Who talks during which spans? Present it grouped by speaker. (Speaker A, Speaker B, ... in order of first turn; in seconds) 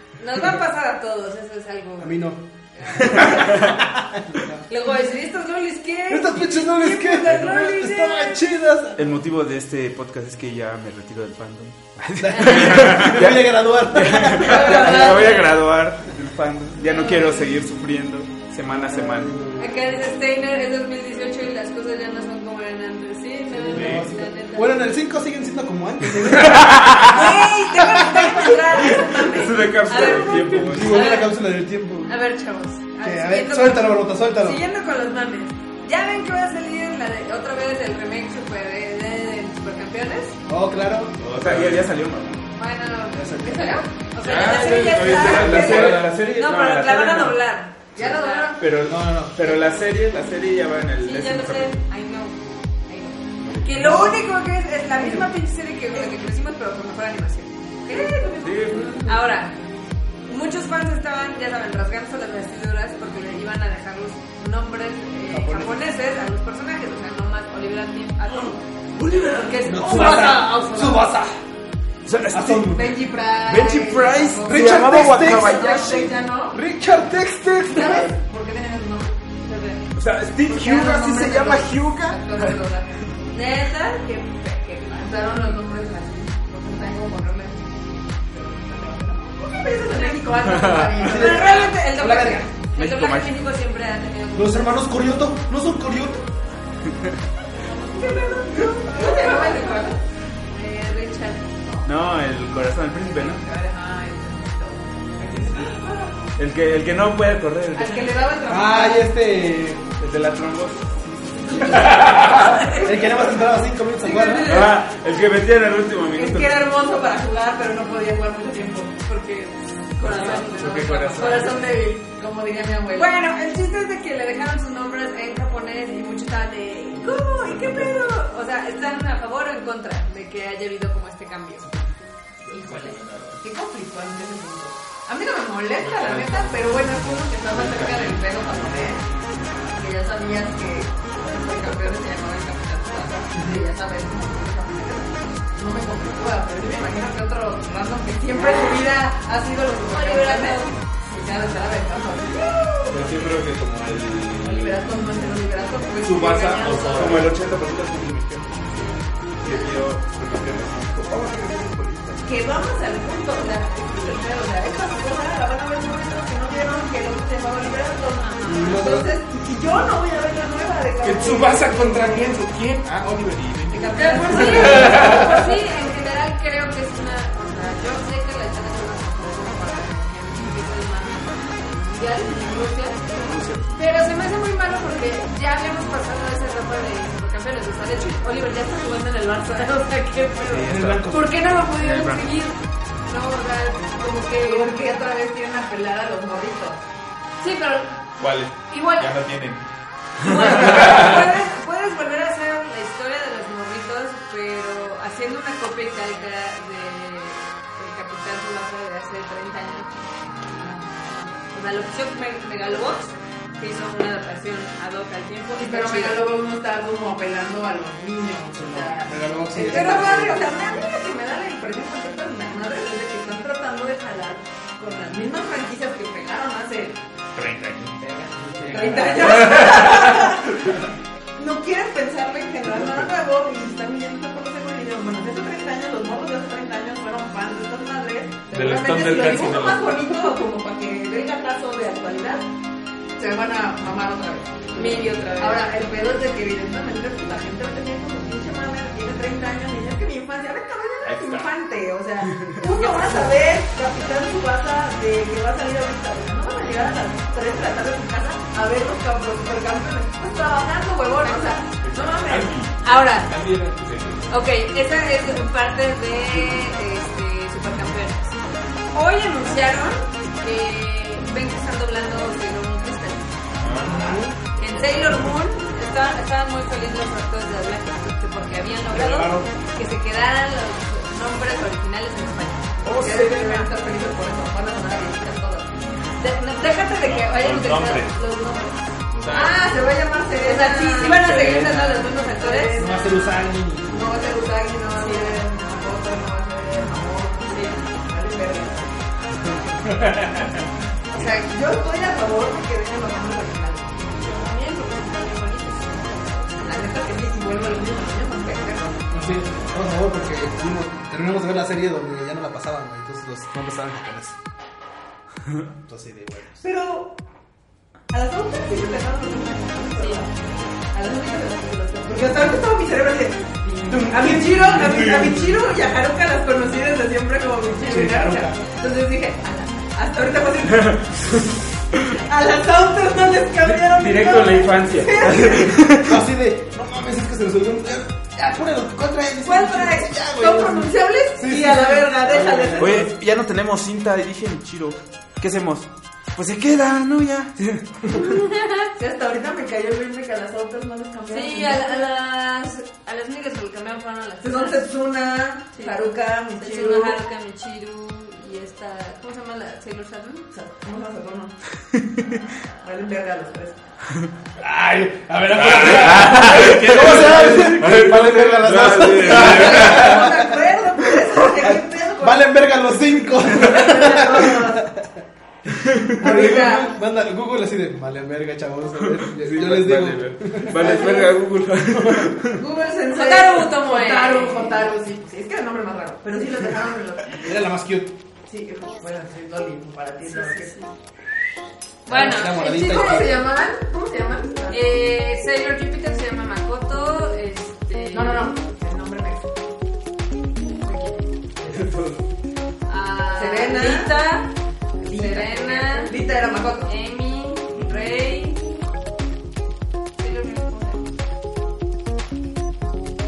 Speaker A: 0.2-3.6, 4.7-8.4, 12.3-12.6, 14.4-15.5, 16.9-17.6, 19.6-24.8, 27.0-31.5, 32.0-40.4, 42.5-48.5, 51.0-59.5, 60.2-71.1, 79.4-79.8, 83.3-85.6, 89.9-90.2, 91.0-94.9, 98.0-99.8, 100.5-101.4, 119.0-122.0, 122.9-131.7, 132.5-132.9, 149.9-150.8, 152.3-153.0, 158.7-159.0, 168.2-168.8, 173.9-194.7, 197.4-199.1, 200.2-210.0, 211.0-216.2, 219.6-220.4, 244.7-245.7, 252.6-253.3, 261.2-261.6, 262.8-263.3, 264.3-268.4, 268.9-274.0, 274.6-283.5, 286.2-288.8, 290.4-292.8, 294.9-295.4, 297.5-297.8, 304.1-306.8, 320.0-320.2, 348.1-348.9, 351.3-354.9, 356.6-360.5, 376.2-376.9, 383.1-384.9, 390.3-390.9, 392.1-393.4, 394.7-398.5, 400.8-401.2, 402.9-408.6, 410.2-411.1
Speaker B: 2.0-4.6, 6.1-9.2, 12.2-15.2, 18.7-20.0, 23.5-28.5, 29.9-32.2, 33.0-34.6, 40.5-41.2, 43.1-43.8, 48.8-49.3, 65.3-65.8, 69.6-71.4, 72.3-72.9, 74.4-76.0, 76.5-78.1, 90.9-92.5, 94.3-96.2, 108.5-109.9, 112.6-114.6, 168.4-169.1, 190.6-191.4, 218.5-220.4, 228.0-229.4, 273.8-274.4, 278.9-279.5, 292.8-294.2, 309.1-314.4, 315.8-316.6, 323.9-325.6, 327.8-328.6, 336.0-343.1, 364.6-375.2, 376.1-381.3, 381.9-382.4, 387.4-388.1, 392.1-393.4
Speaker C: 3.3-3.8, 8.9-19.3, 26.5-27.0, 28.8-31.1, 41.2-42.4, 44.3-47.4, 48.6-51.8, 53.8-54.0, 58.4-59.1, 69.0-69.8, 72.0-72.9, 73.4-76.1, 79.9-82.6, 90.5-90.9, 92.8-93.3, 96.8-97.2, 101.8-103.4, 106.4-108.2, 110.0-112.9, 114.4-116.6, 153.1-153.4, 156.9-158.6, 159.4-162.2, 182.3-182.6, 183.1-183.7, 190.4-192.3, 282.9-283.2, 291.0-292.0, 333.8-336.2, 342.8-348.0, 361.9-362.2, 366.5-369.9, 375.7-376.2, 379.4-382.6, 401.6-402.2
Speaker D: 12.7-13.0, 23.7-24.1, 41.2-41.9, 44.2-46.2, 53.5-53.8, 111.7-112.5, 120.1-121.6, 127.5-127.9, 132.4-133.4, 135.8-139.7, 152.9-154.7, 156.0-157.3, 159.5-159.7, 171.0-175.5, 198.2-199.6, 200.3-201.3, 227.3-228.0, 229.1-230.8, 232.8-233.1, 238.5-240.1, 251.0-251.5, 261.8-264.3, 266.3-266.6, 273.6-274.2, 287.0-288.2, 289.1-289.6, 299.8-300.7, 365.5-370.3, 379.7-380.3, 407.7-408.1
Speaker E: 14.4-15.4, 43.4-43.8, 47.9-48.6, 55.0-55.3, 58.0-59.0, 69.8-70.6, 72.5-76.6, 77.7-79.2, 80.5-83.1, 84.9-87.7, 88.3-91.7, 97.5-100.0, 103.2-106.3, 107.7-109.1, 112.3-112.9, 114.0-114.8, 116.1-119.0, 120.2-123.1, 133.4-139.0, 139.7-153.3, 154.4-157.3, 162.2-172.3, 173.7-175.3, 194.4-196.8, 210.6-211.2, 215.6-227.0, 228.7-230.6, 231.4-242.4, 243.2-262.6, 273.9-275.2, 282.9-285.7, 289.3-293.3, 293.9-298.9, 301.1-304.1, 306.6-309.0, 316.6-317.1, 318.1-331.3, 332.1-335.8, 339.4-343.1, 348.9-352.1, 354.4-357.2, 360.5-361.6, 362.8-363.8, 369.2-372.6, 373.4-374.8, 376.3-376.7, 380.8-381.3, 382.5-387.6, 388.5-390.7, 392.6-394.8, 398.1-399.5, 401.6-401.9, 403.3-404.1, 405.0-406.9